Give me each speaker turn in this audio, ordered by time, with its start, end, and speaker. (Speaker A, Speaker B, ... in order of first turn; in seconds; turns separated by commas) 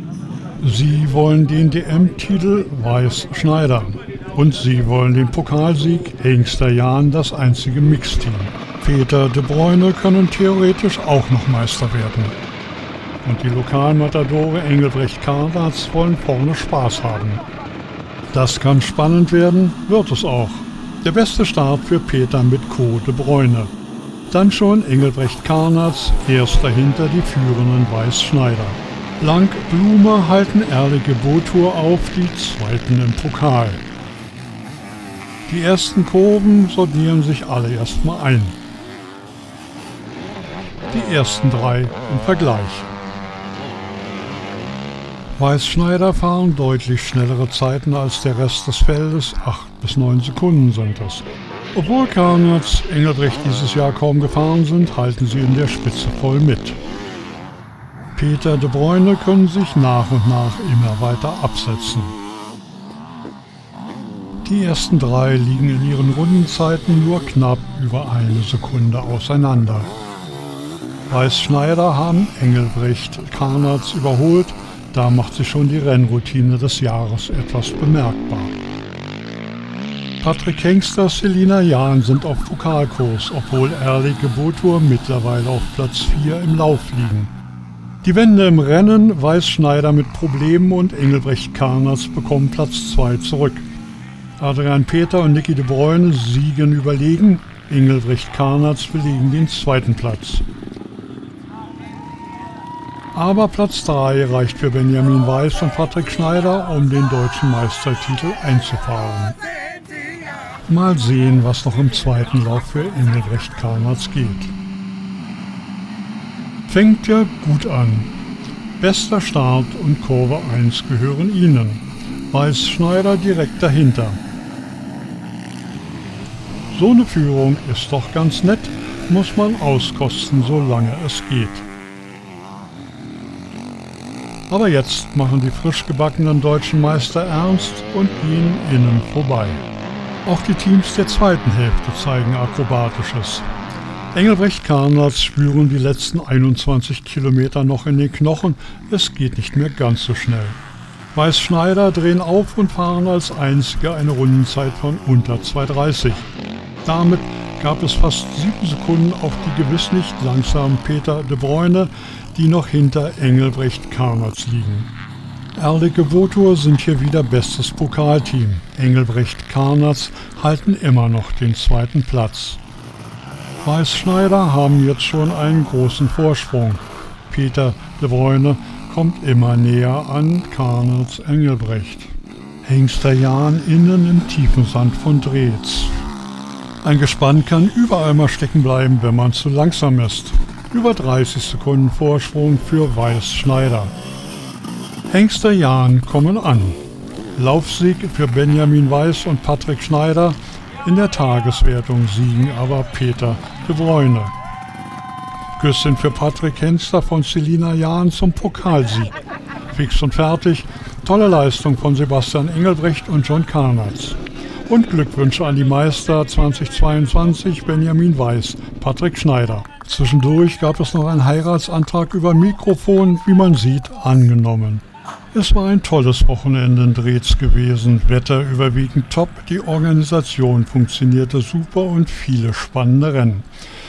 Speaker A: 0.6-12.4, Speaker A: 13.2-17.4, Speaker A: 18.3-23.7, Speaker A: 24.3-33.8, Speaker A: 35.5-38.6, Speaker A: 40.9-42.9, Speaker A: 45.4-56.8, Speaker A: 58.1-62.1, Speaker A: 64.4-69.9, Speaker A: 71.1-78.5, Speaker A: 80.2-87.3, Speaker A: 88.0-93.7, Speaker A: 94.4-100.4, Speaker A: 103.1-109.3, Speaker A: 110.7-114.5, Speaker A: 116.7-118.1, Speaker A: 118.8-124.2, Speaker A: 126.7-131.7, Speaker A: 134.5-139.6, Speaker A: 140.2-143.4, Speaker A: 144.1-150.6, Speaker A: 151.1-156.3, Speaker A: 156.8-164.9, Speaker A: 165.6-172.6, Speaker A: 173.6-185.9, Speaker A: 186.8-193.9, Speaker A: 195.1-196.8, Speaker A: 197.3-204.3, Speaker A: 205.6-209.1, Speaker A: 209.7-233.5